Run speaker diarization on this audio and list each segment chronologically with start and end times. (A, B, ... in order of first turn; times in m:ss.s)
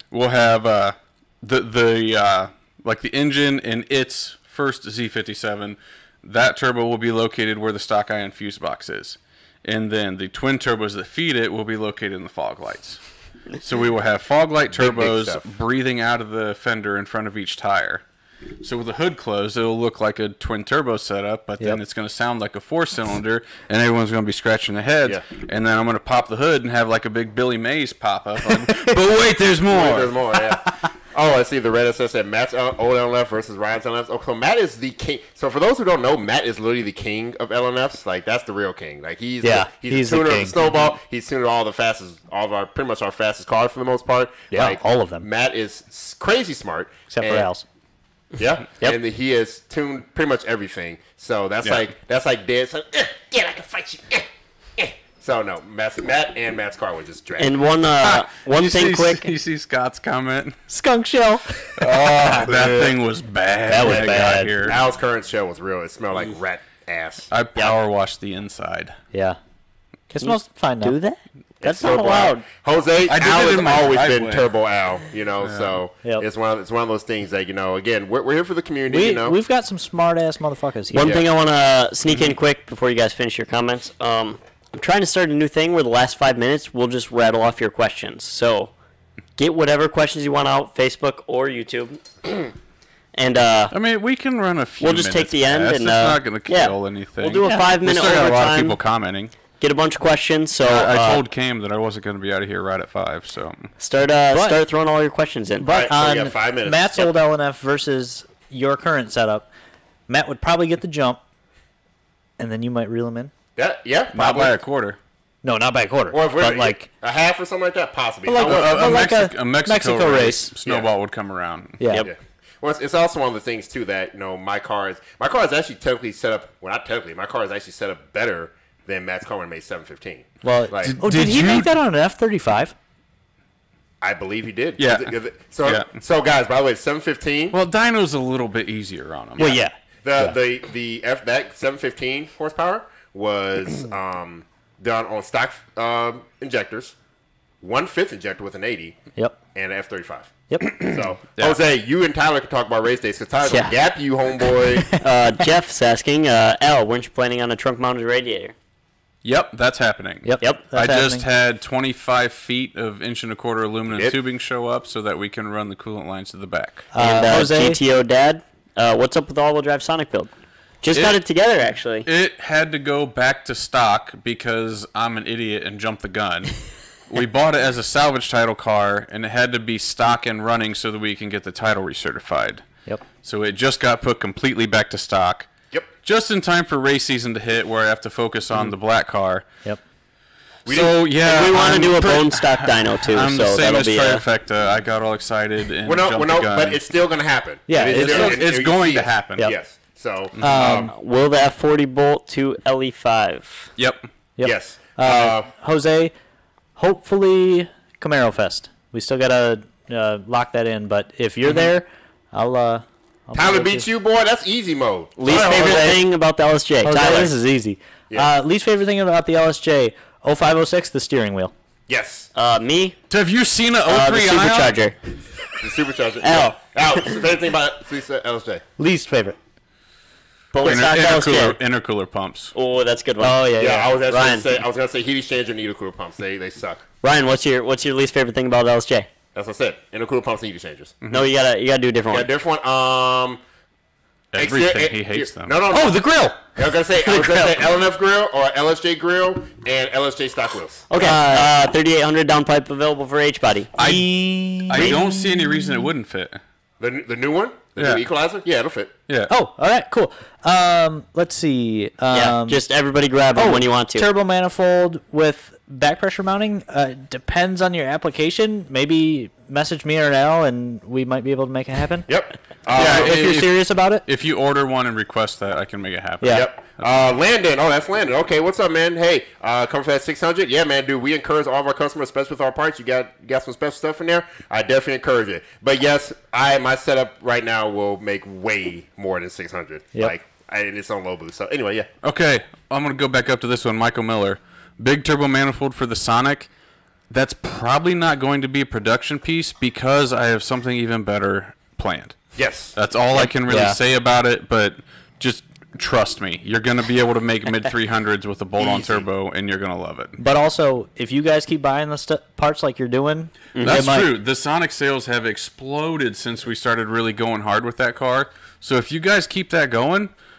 0:00.1-0:13.0 A
0:13.6-0:18.0 A
0:14.7-0:15.4 B
0:18.6-0:30.2 A
0:29.7-0:47.5 B
0:39.4-0:40.6 C
0:44.5-0:45.3 C
0:47.1-0:47.6 C
0:48.4-0:57.6 B
0:57.4-0:59.3 D
0:58.0-1:00.6 A
1:00.7-1:02.4 C
1:01.8-1:04.8 A
1:02.3-1:02.9 B
1:03.7-1:04.6 C
1:03.8-1:07.7 B
1:07.3-1:09.0 A
1:09.1-1:09.4 C
1:10.1-1:11.0 C
1:10.2-1:12.5 D
1:11.6-1:19.4 B
1:13.1-1:14.5 A
1:15.4-1:15.8 A
1:18.9-1:21.2 C
1:20.9-1:28.7 D
1:21.0-1:21.3 B
1:29.4-1:32.5 D
1:33.1-1:33.7 D
1:33.7-1:39.3 A
1:34.8-1:38.8 D
1:37.4-1:37.7 C
1:39.6-1:41.2 D
1:40.6-1:43.7 A
1:43.8-1:45.7 D
1:44.3-1:44.6 C
1:45.6-1:49.5 C
1:45.7-1:47.0 B
1:50.1-1:51.2 C
1:52.4-1:53.3 C
1:53.6-1:54.6 B
1:54.1-1:55.0 A
1:55.4-1:56.9 C
1:56.1-1:59.0 B
1:58.3-2:00.5 C
1:58.4-2:01.8 A
2:01.8-2:02.1 C
2:02.0-2:11.0 B
2:10.4-2:12.7 C
2:10.8-2:11.7 A
2:14.0-2:17.6 B
2:14.8-2:15.9 A
2:17.5-2:19.6 A
2:19.4-2:20.3 C
2:19.4-2:27.0 B
2:27.6-2:29.0 B
2:29.6-2:35.0 B
2:30.5-2:30.8 C
2:35.0-2:38.6 D
2:39.2-2:46.9 A
2:40.2-2:41.2 C
2:46.9-2:47.8 C
2:47.0-2:50.3 D
2:50.8-2:52.1 D
2:50.9-2:51.2 A
2:52.1-2:56.6 A
2:57.1-3:02.6 A
3:03.2-3:05.5 A
3:06.0-3:09.4 A
3:10.7-3:11.1 B
3:10.7-3:16.8 A
3:11.2-3:14.2 D
3:15.8-3:20.9 B
3:17.7-3:18.4 C
3:17.9-3:19.5 A
3:20.4-3:20.9 C
3:20.9-3:23.7 D
3:23.8-3:24.1 A
3:24.4-3:26.1 C
3:24.4-3:25.5 B
3:26.8-3:33.9 C
3:33.4-3:35.9 B
3:35.2-3:37.3 D
3:35.3-3:36.0 C
3:36.8-3:41.5 C
3:41.9-3:42.3 B
3:42.4-3:43.0 D
3:43.1-3:44.8 A
3:43.9-3:45.0 D
3:45.6-3:48.6 B
3:46.2-3:46.6 D
3:48.8-3:49.4 C
3:50.5-3:51.2 B
3:50.6-3:51.6 D
3:50.6-3:52.5 A
3:52.5-3:54.5 D
3:53.2-3:54.0 C
3:53.6-3:56.8 B
3:57.0-3:59.1 D
3:59.4-4:01.0 B
4:01.0-4:01.3 A
4:01.1-4:02.3 D
4:02.1-4:03.4 B
4:04.3-4:05.6 A
4:04.4-4:10.9 B
4:05.7-4:06.4 C
4:07.1-4:07.5 C
4:10.9-4:13.8 D
4:11.0-4:11.5 C
4:13.8-4:16.4 A
4:13.8-4:15.8 C
4:16.8-4:18.9 B
4:17.8-4:18.0 A
4:19.3-4:22.6 C
4:22.1-4:24.1 D
4:23.4-4:32.1 C
4:32.1-4:33.4 B
4:32.7-4:34.0 C
4:32.8-4:36.9 A
4:36.2-4:36.5 C
4:36.2-4:51.9 B
4:52.0-4:56.5 A
4:57.1-5:02.2 A
5:02.4-5:03.3 B
5:02.8-5:10.2 A
5:03.4-5:03.8 C
5:08.6-5:09.1 B
5:10.2-5:14.1 C
5:13.6-5:13.8 D
5:13.6-5:20.1 A